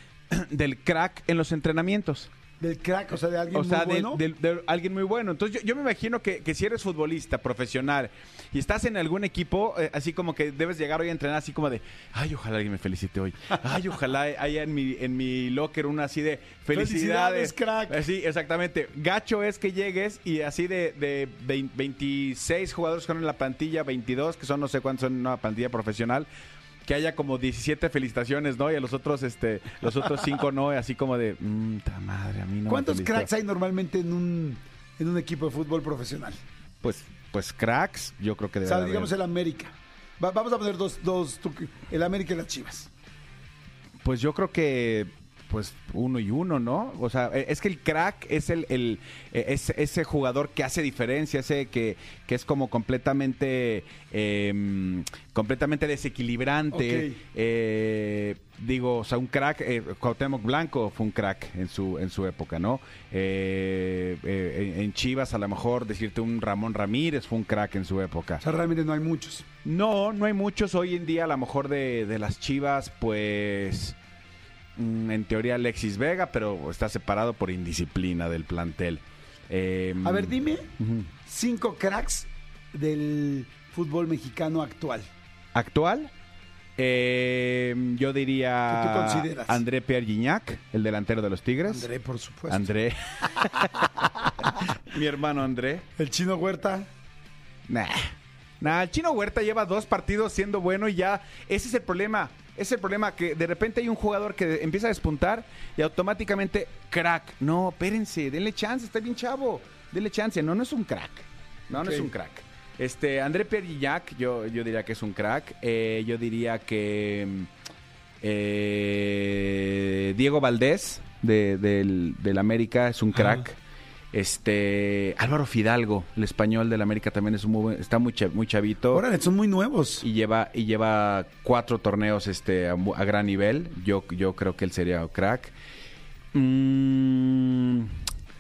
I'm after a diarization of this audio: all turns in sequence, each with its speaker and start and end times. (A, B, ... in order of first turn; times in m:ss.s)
0:00.3-0:02.3 A
0:02.6-0:04.2 B
0:03.5-0:26.3 A
0:16.7-0:18.0 B
0:26.9-0:33.3 A
0:32.7-0:36.4 B
0:36.8-0:39.1 A
0:38.6-0:42.9 B
0:44.0-1:08.4 A
0:56.7-0:57.2 B
1:08.4-1:09.4 B
1:09.6-1:14.0 A
1:14.8-1:21.1 A
1:20.0-1:20.7 B
1:21.3-1:25.1 B
1:25.5-1:26.1 A
1:26.8-1:31.9 A
1:28.7-1:29.6 B
1:31.7-1:32.7 B
1:32.5-1:35.9 A
1:36.0-1:36.9 B
1:37.7-1:57.5 A
1:51.7-1:52.1 B
1:58.2-2:03.6 A
2:04.1-2:09.0 A
2:08.9-2:10.0 B
2:10.0-2:15.5 A
2:16.3-2:17.9 A